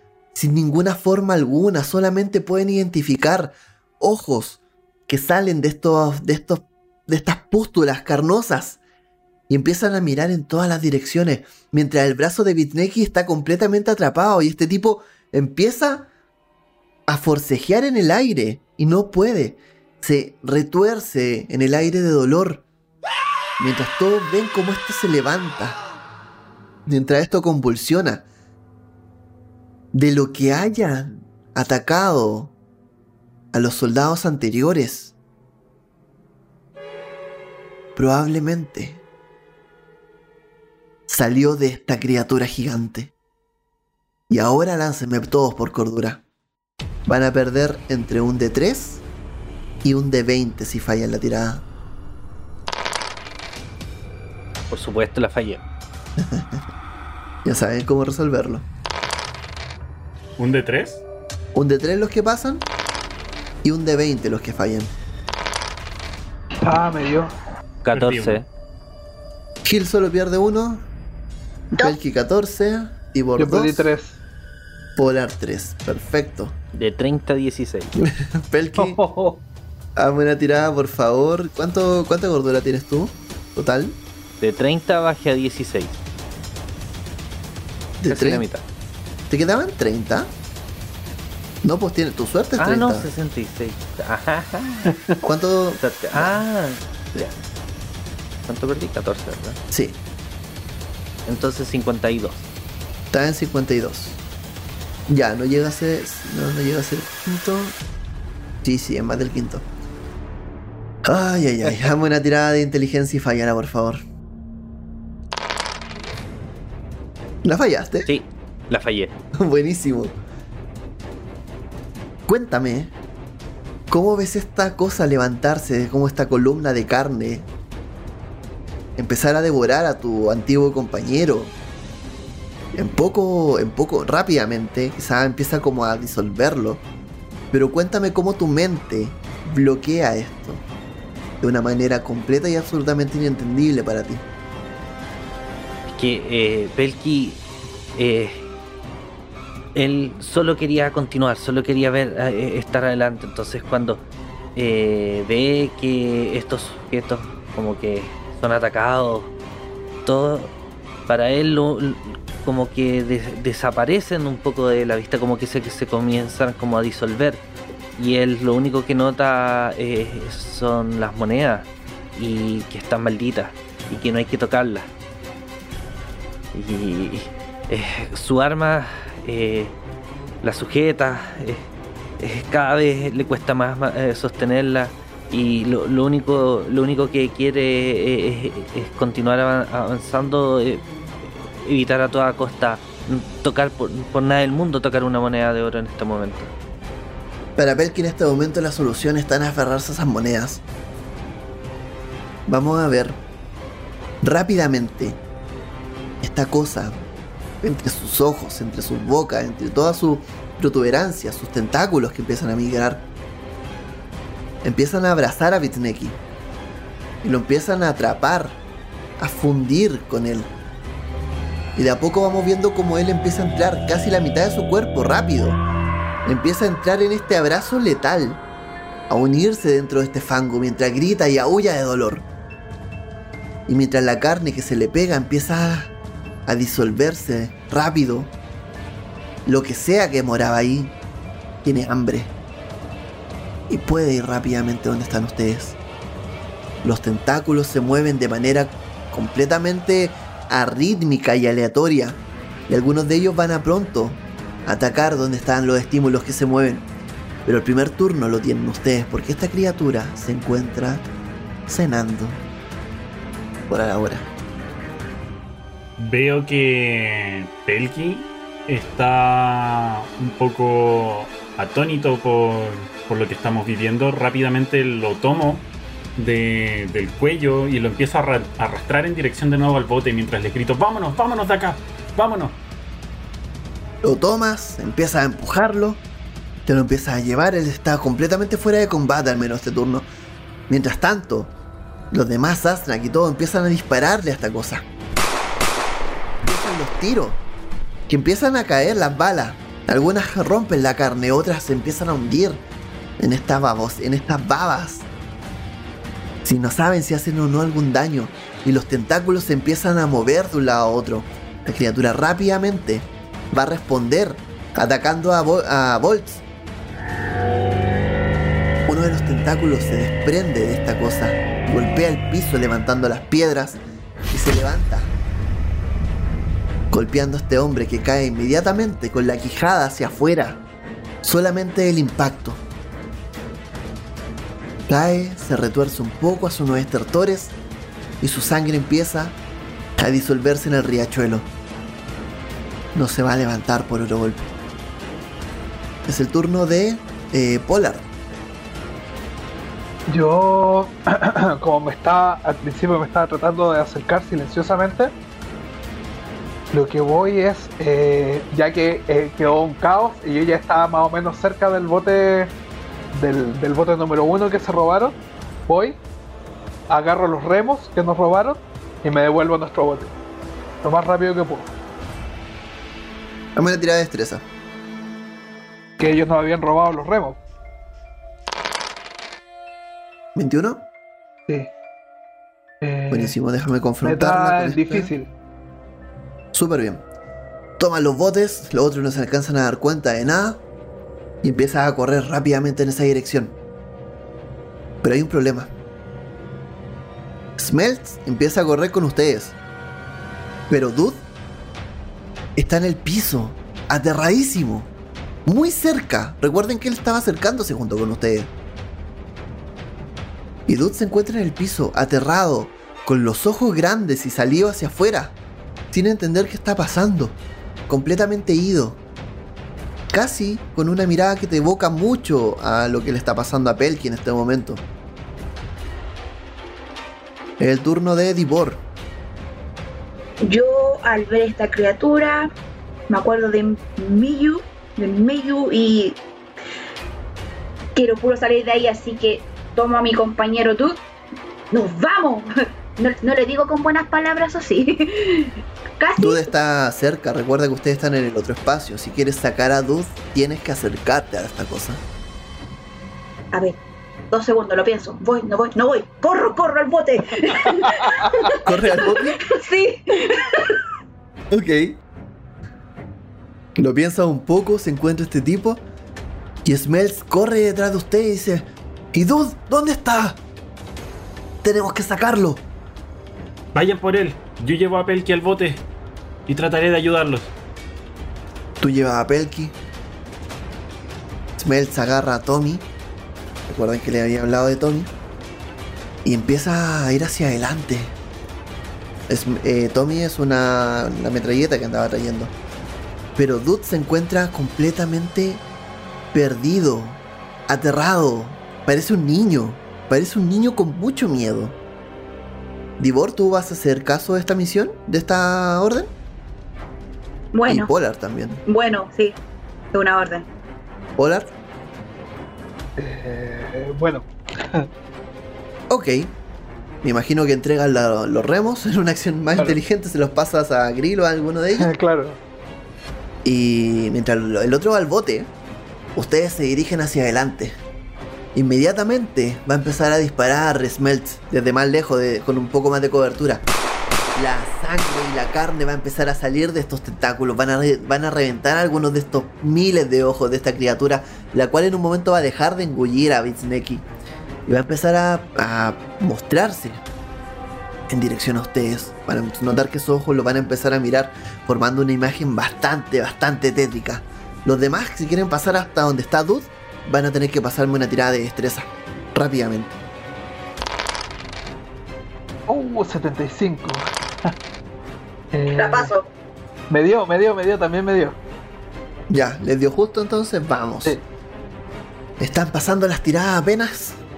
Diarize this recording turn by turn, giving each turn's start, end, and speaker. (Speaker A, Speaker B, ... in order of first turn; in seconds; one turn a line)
Speaker A: 0.3-8.8
Speaker A: 9.5-16.1
Speaker A: 17.1-22.6
Speaker A: 23.6-25.8
Speaker A: 26.9-28.2
Speaker A: 29.9-32.5
Speaker A: 33.5-35.1
Speaker A: 38.0-39.0
Speaker A: 41.1-43.1
Speaker A: 44.3-46.2
Speaker A: 47.0-49.0
Speaker A: 49.8-51.6
Speaker B: 54.7-55.6
Speaker A: 56.2-56.6
Speaker A: 57.4-58.7
Speaker C: 60.4-61.0
Speaker A: 61.5-62.7
Speaker A: 63.6-64.9
Speaker D: 66.6-67.3
Speaker B: 67.8-68.5
Speaker C: 67.9-68.4
Speaker A: 69.6-70.8
Speaker A: 71.8-73.9
Speaker D: 73.4-74.2
Speaker A: 75.0-76.5
Speaker B: 76.7-78.0
Speaker A: 78.0-79.0
Speaker D: 78.8-79.4
Speaker A: 80.0-84.0
Speaker B: 84.4-86.0
Speaker A: 88.0-88.4
Speaker B: 88.1-88.6
Speaker A: 89.3-90.3
Speaker A: 91.6-93.1
Speaker B: 92.6-94.9
Speaker A: 95.2-96.4
Speaker B: 95.8-96.8
Speaker A: 97.1-97.4
Speaker B: 98.5-99.6
Speaker A: 99.7-100.0
Speaker B: 101.2-102.5
Speaker A: 103.1-104.2
Speaker A: 105.1-107.8
Speaker A: 108.6-109.7
Speaker A: 111.0-114.0
Speaker A: 117.4-118.1
Speaker B: 118.0-119.1
Speaker A: 119.3-120.2
Speaker A: 122.2-122.9
Speaker A: 123.9-127.5
Speaker A: 129.0-131.5
Speaker A: 132.7-136.8
Speaker A: 137.5-140.6
Speaker A: 141.4-144.2
Speaker B: 145.9-147.4
Speaker B: 147.9-148.4
Speaker B: 149.7-154.0
Speaker B: 154.6-159.3
Speaker B: 160.1-160.5
Speaker B: 161.1-167.4
Speaker B: 168.0-174.9
Speaker B: 176.5-179.8
Speaker B: 180.4-181.7
Speaker B: 182.2-196.5
Speaker A: 197.6-200.6
Speaker A: 202.5-203.2
Speaker A: 204.2-205.2
Speaker A: 206.2-207.0
Speaker A: 207.6-213.1
Speaker A: 214.6-216.2
Speaker A: 217.2-218.6
Speaker A: 219.2-220.5
Speaker A: 221.8-225.6
Speaker A: 226.2-228.4
Speaker A: 229.1-232.2
Speaker A: 233.7-235.9
Speaker A: 236.4-238.3
Speaker A: 239.4-240.9
Speaker A: 241.6-242.3
Speaker A: 243.7-245.8
Speaker A: 246.8-256.9
Speaker A: 257.4-261.1
Speaker A: 261.7-262.4
Speaker A: 263.7-264.3
Speaker C: 266.0-282.6
Speaker A: 284.0-286.0
Speaker A: 286.6-290.1
Speaker A: 290.7-291.5
Speaker A: 292.1-294.8
Speaker A: 296.4-297.4
Speaker A: 298.1-302.6
Speaker A: 303.2-305.1
Speaker A: 306.4-316.4
Speaker A: 318.9-323.8
Speaker A: 324.3-325.1
Speaker A: 326.9-330.6
Speaker A: 331.2-332.6
Speaker A: 334.9-337.5
Speaker A: 338.2-339.4
Speaker A: 340.0-341.5
Speaker A: 342.9-344.5
Speaker A: 346.1-348.1
Speaker D: 350.1-355.1
Speaker D: 356.7-362.5
Speaker D: 363.1-365.2
Speaker D: 365.7-366.0
Speaker D: 366.9-370.1
Speaker D: 370.8-371.7
Speaker A: 373.5-374.4
Speaker D: 376.0-377.4
Speaker A: 380.3-380.9
Speaker D: 382.8-383.4
Speaker A: 383.1-385.1
Speaker D: 384.0-385.3
Speaker A: 386.5-387.0
Speaker A: 387.8-390.6
Speaker A: 391.4-393.6
Speaker A: 395.0-395.7
Speaker A: 397.6-399.6
Speaker A: 400.7-401.2
Speaker A: 402.6-404.9
Speaker A: 405.4-408.5
Speaker A: 410.7-415.4
Speaker A: 415.9-419.0
Speaker A: 420.1-424.8
Speaker A: 427.6-428.8
Speaker E: 430.4-432.5
Speaker E: 433.1-436.2
Speaker E: 437.9-441.0
Speaker E: 441.7-446.5
Speaker A: 446.2-452.0
Speaker E: 453.5-453.8
Speaker E: 454.3-460.8
Speaker D: 457.8-458.4
Speaker A: 458.6-459.4
Speaker A: 461.5-462.0
Speaker A: 463.8-465.8
Speaker A: 466.6-470.4
Speaker A: 471.6-472.6
Speaker C: 473.7-475.8
Speaker C: 476.5-477.5
Speaker A: 478.8-479.8
Speaker A: 481.6-482.9
Speaker A: 483.7-485.1
Speaker A: 486.2-488.1
Speaker A: 489.3-492.5
Speaker A: 493.4-495.6
Speaker A: 496.3-501.8
Speaker A: 503.0-506.1
Speaker E: 507.5-507.9
Speaker A: 507.7-508.6
Speaker E: 508.6-509.4
Speaker E: 509.9-510.5
Speaker A: 511.2-511.5
Speaker D: 513.0-514.9
Speaker A: 515.9-516.3
Speaker A: 517.0-521.9
Speaker D: 521.8-522.4
Speaker A: 523.4-525.5
Speaker A: 526.1-527.8
Speaker A: 528.5-533.6
Speaker A: 534.3-544.0
Speaker A: 544.7-547.0
Speaker A: 548.1-560.0
Speaker D: 562.7-564.1
Speaker D: 565.5-566.1
Speaker E: 565.7-566.3
Speaker D: 566.9-568.4
Speaker A: 569.3-571.1
Speaker A: 572.4-574.2